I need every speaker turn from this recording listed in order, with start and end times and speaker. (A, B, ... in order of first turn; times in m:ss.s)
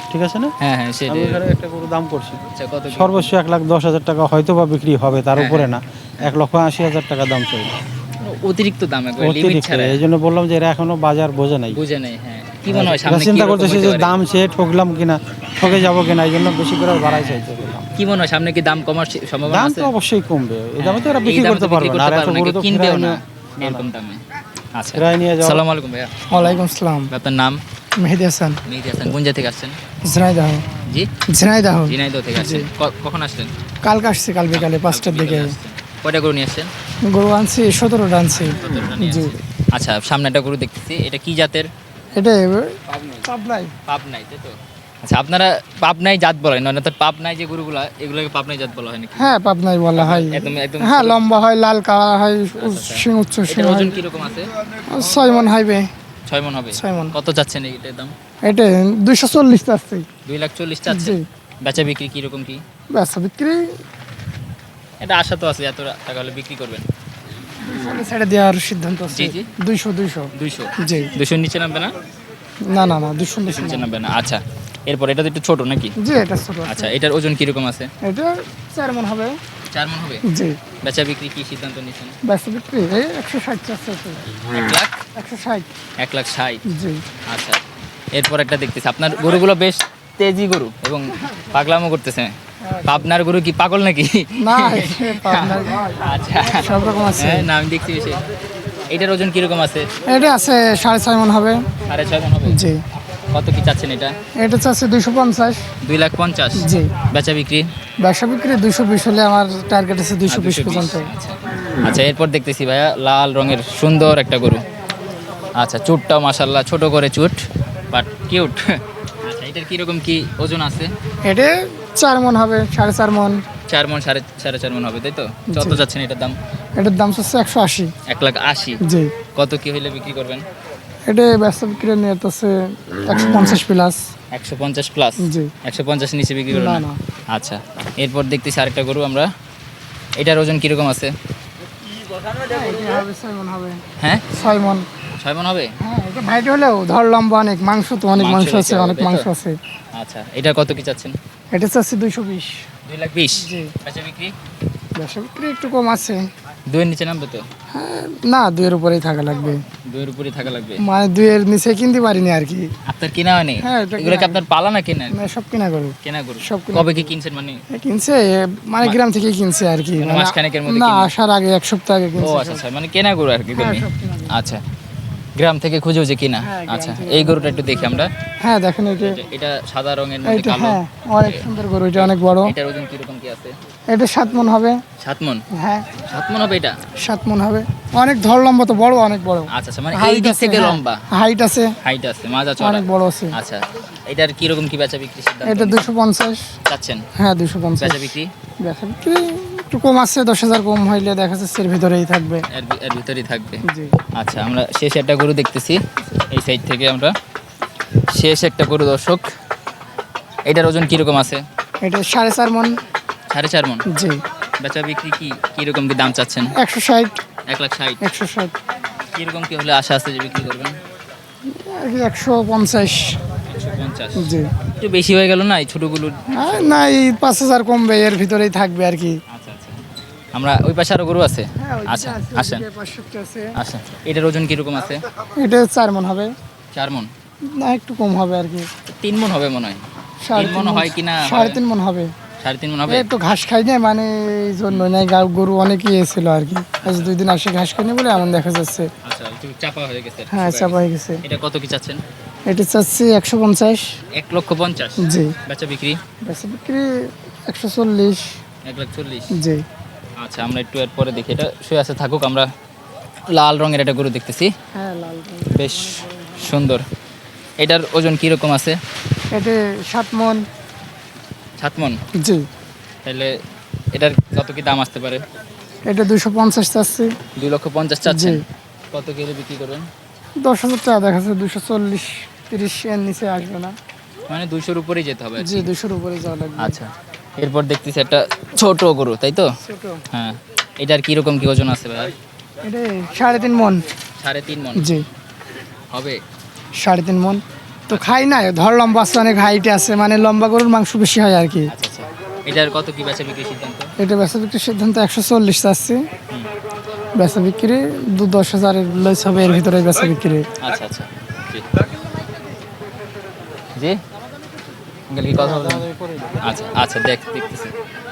0:00.1-0:00.5 A
0:00.6-0:01.4 B
0:01.1-0:02.4 A
0:02.5-0:03.3 B
0:02.9-0:07.7 A
0:05.4-0:06.3 B
0:08.2-0:10.0 B
0:09.2-0:11.8 A
0:11.7-0:14.1 B
0:12.7-0:17.9 A
0:17.0-0:17.4 B
0:18.0-0:19.9 B
0:19.5-0:23.8 A
0:20.8-0:24.2 B
0:24.7-0:27.6 B
0:24.9-0:25.6 A
0:26.3-0:27.1 C
0:28.0-0:28.6 C
0:28.7-0:29.8 B
0:30.0-0:30.6 C
0:31.3-0:32.7 C
0:31.9-0:33.5 B
0:33.8-0:35.5 C
0:34.5-0:36.7 B
0:37.1-0:39.3 C
0:38.3-0:41.7 B
0:42.1-0:43.7 C
0:42.9-0:43.3 B
0:43.9-0:49.4 B
0:49.2-0:54.0 C
0:50.0-0:51.2 B
0:52.6-0:54.5 B
0:54.8-0:55.9 C
0:56.3-0:58.1 B
0:56.8-0:57.1 C
0:58.5-1:00.0 C
1:00.2-1:02.6 B
1:00.9-1:01.2 C
1:02.9-1:03.6 C
1:05.0-1:06.8 B
1:07.6-1:11.1 C
1:09.1-1:09.5 B
1:10.3-1:11.9 B
1:12.7-1:13.9 C
1:13.5-1:15.9 B
1:16.0-1:16.9 C
1:16.6-1:17.9 B
1:18.0-1:19.4 C
1:19.7-1:20.2 B
1:20.3-1:20.6 C
1:20.8-1:22.1 B
1:22.2-1:24.4 C
1:24.4-1:25.0 B
1:25.2-1:25.7 C
1:26.0-1:26.6 B
1:26.7-1:27.0 C
1:27.3-1:27.6 B
1:28.1-1:38.2 B
1:32.6-1:33.0 C
1:34.4-1:37.5 C
1:38.9-1:39.9 B
1:40.0-1:41.6 C
1:41.8-1:42.6 B
1:42.4-1:42.8 C
1:43.3-1:44.1 B
1:44.4-1:45.6 C
1:45.8-1:47.7 B
1:46.6-1:46.9 C
1:48.0-1:51.1 C
1:50.3-1:54.6 B
1:55.6-1:57.4 B
1:57.9-2:00.9 B
2:01.2-2:03.4 C
2:03.7-2:06.4 B
2:05.5-2:05.8 C
2:06.8-2:07.9 C
2:08.1-2:08.8 B
2:08.8-2:09.1 C
2:09.3-2:10.4 B
2:11.1-2:14.0 C
2:14.3-2:19.3 B
2:15.2-2:15.5 C
2:16.5-2:17.0 C
2:20.2-2:21.1 B
2:22.3-2:24.8 C
2:24.0-2:24.3 B
2:25.2-2:25.7 B
2:25.8-2:29.6 C
2:28.2-2:29.3 B
2:30.0-2:31.2 B
2:31.5-2:32.6 C
2:32.8-2:34.3 B
2:33.4-2:33.7 C
2:34.9-2:36.3 C
2:36.7-2:37.4 B
2:37.7-2:39.6 C
2:39.9-2:40.8 B
2:40.8-2:42.7 C
2:42.9-2:45.2 B
2:43.6-2:44.4 C
2:45.1-2:47.0 C
2:46.0-2:47.6 B
2:47.7-2:52.6 C
2:50.0-2:51.1 B
2:52.2-2:54.6 B
2:53.5-2:54.4 C
2:55.4-2:58.1 B
2:56.4-2:59.2 C
2:59.0-3:03.6 B
3:00.2-3:02.5 C
3:03.9-3:04.8 C
3:05.0-3:05.4 B
3:05.5-3:05.9 C
3:06.0-3:06.7 B
3:07.0-3:11.7 C
3:09.5-3:11.0 B
3:11.8-3:15.9 B
3:12.6-3:13.4 C
3:15.4-3:16.5 C
3:16.7-3:17.0 B
3:17.2-3:22.5 C
3:17.8-3:18.3 B
3:22.5-3:27.1 B
3:23.7-3:24.0 C
3:28.0-3:29.3 B
3:30.4-3:31.4 B
3:31.8-3:32.7 C
3:33.3-3:33.8 B
3:33.9-3:34.2 C
3:34.6-3:36.5 B
3:36.5-3:37.2 C
3:37.5-3:38.0 B
3:38.0-3:38.5 C
3:39.1-3:40.8 B
3:41.5-3:43.2 C
3:43.5-3:46.8 B
3:44.2-3:44.5 C
3:46.4-3:49.1 C
3:49.3-3:49.8 B
3:50.3-3:52.6 B
3:51.6-3:53.5 C
3:53.6-3:55.0 B
3:55.4-3:56.3 C
3:56.7-3:57.1 B
3:57.6-3:58.7 C
3:58.9-3:59.8 B
4:00.2-4:02.1 C
4:00.3-4:01.6 B
4:02.4-4:03.1 B
4:02.9-4:08.9 C
4:06.8-4:07.1 B
4:09.0-4:12.0 B
4:10.3-4:11.2 C
4:12.5-4:13.9 C
4:14.1-4:16.0 B
4:15.0-4:15.3 C
4:16.2-4:16.9 C
4:17.5-4:18.3 C
4:18.6-4:19.4 B
4:19.3-4:19.6 C
4:20.2-4:22.5 B
4:23.3-4:24.5 B
4:24.7-4:26.4 C
4:25.5-4:26.8 B
4:27.6-4:28.8 B
4:29.3-4:30.4 C
4:31.6-4:32.0 B
4:33.0-4:33.4 B
4:33.9-4:35.2 B
4:35.9-4:37.1 C
4:37.4-4:39.9 B
4:38.0-4:38.4 C
4:40.4-4:43.7 C
4:44.3-4:45.7 B
4:45.4-4:46.8 C
4:46.6-4:49.5 B
4:49.6-4:50.0 C
4:50.1-4:52.1 B
4:52.6-4:53.8 C
4:54.2-4:54.9 B
4:54.8-4:55.0 C
4:55.9-4:56.2 B
4:56.8-5:01.7 C
5:01.7-5:03.9 B
5:04.0-5:06.0 C
5:07.2-5:10.4 C
5:10.6-5:11.6 B
5:15.1-5:15.8 B
5:15.4-5:16.6 A
5:16.4-5:17.7 B